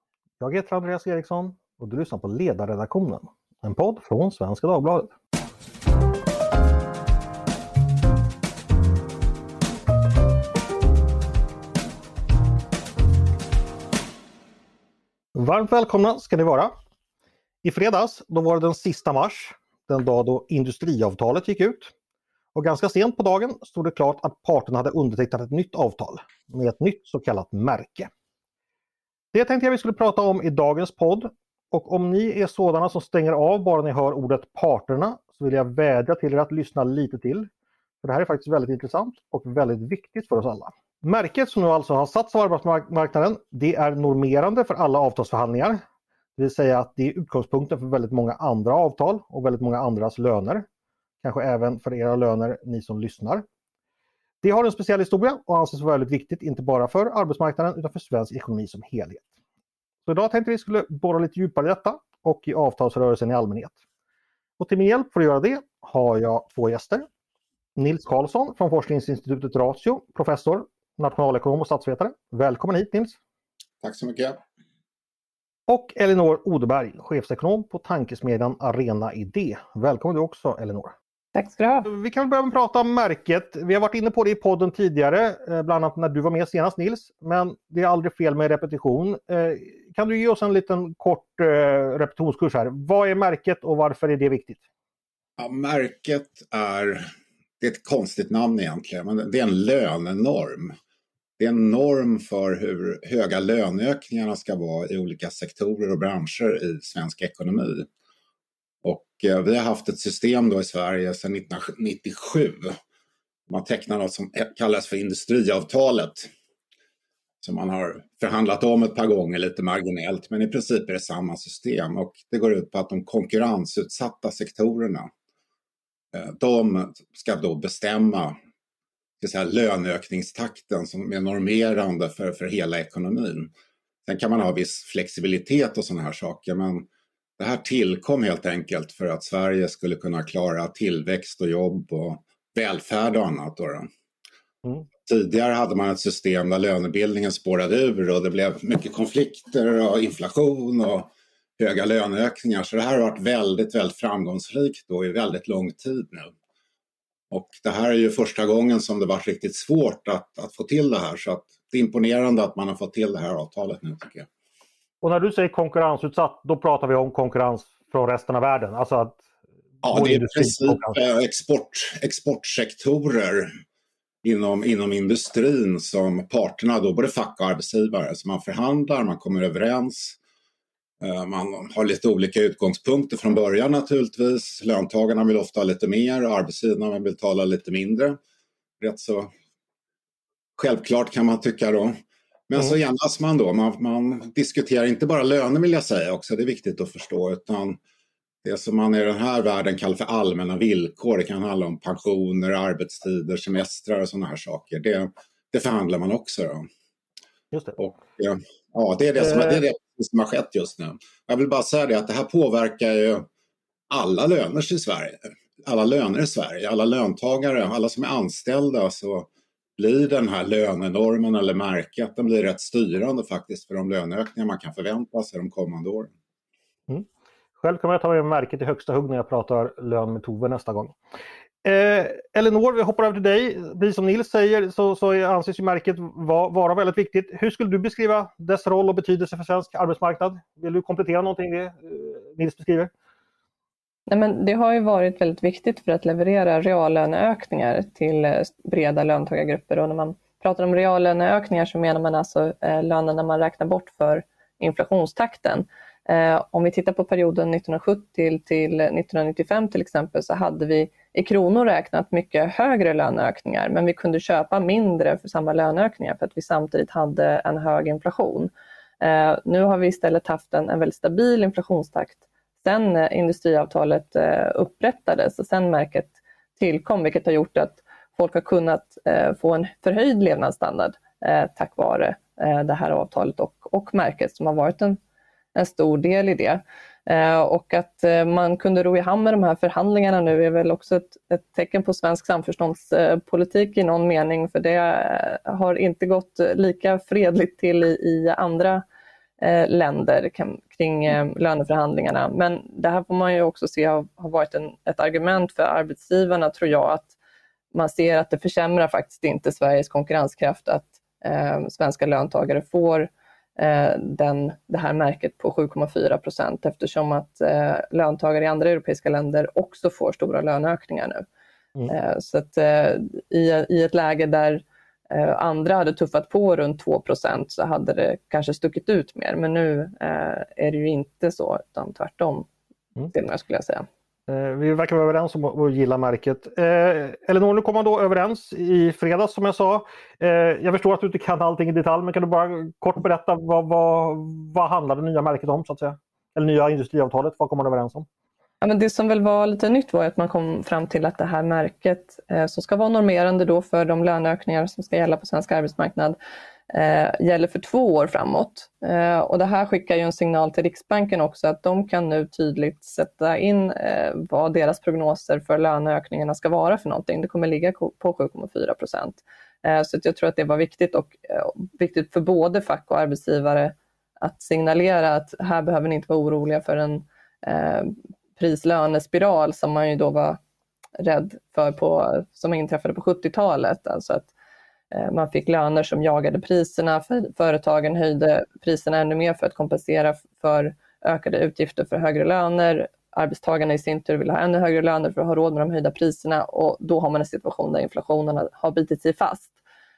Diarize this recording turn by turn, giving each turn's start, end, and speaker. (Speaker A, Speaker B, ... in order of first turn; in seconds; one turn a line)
Speaker A: 0.4-5.1
Speaker A: 15.3-16.7
Speaker A: 17.6-21.9
Speaker A: 22.5-28.1
Speaker A: 29.3-37.5
Speaker A: 38.0-45.8
Speaker A: 46.4-50.6
Speaker A: 51.2-53.4
Speaker A: 54.4-59.3
Speaker A: 60.0-63.8
Speaker A: 64.6-67.1
Speaker A: 67.8-73.2
Speaker B: 73.8-74.4
Speaker A: 75.7-80.9
Speaker C: 81.3-81.9
Speaker A: 81.8-94.6
Speaker B: 95.4-97.1
Speaker B: 97.6-100.8
Speaker B: 101.4-107.9
Speaker B: 108.8-112.8
Speaker B: 113.5-116.3
Speaker B: 117.4-125.1
Speaker B: 126.1-128.3
Speaker B: 129.2-133.5
Speaker B: 134.1-143.9
Speaker B: 145.0-156.3
Speaker B: 157.3-164.3
Speaker A: 165.0-169.2
Speaker B: 169.8-173.5
Speaker A: 169.9-171.0
Speaker B: 174.2-180.2
Speaker B: 181.0-188.2
Speaker B: 188.8-189.3
Speaker B: 190.6-191.9
Speaker B: 192.5-197.8
Speaker B: 198.4-206.7
Speaker A: 207.5-207.8
Speaker B: 207.8-213.2
Speaker A: 209.2-209.6
Speaker B: 213.9-226.1
Speaker A: 227.6-230.9
Speaker A: 231.6-242.9
Speaker C: 244.1-285.0
Speaker C: 285.5-298.8
Speaker C: 299.4-307.1
Speaker C: 307.7-321.2
Speaker C: 321.9-332.5
Speaker C: 333.1-333.9
Speaker A: 334.3-348.1
Speaker C: 348.6-356.2
Speaker C: 356.7-380.4
Speaker C: 381.0-384.3
Speaker C: 384.9-399.5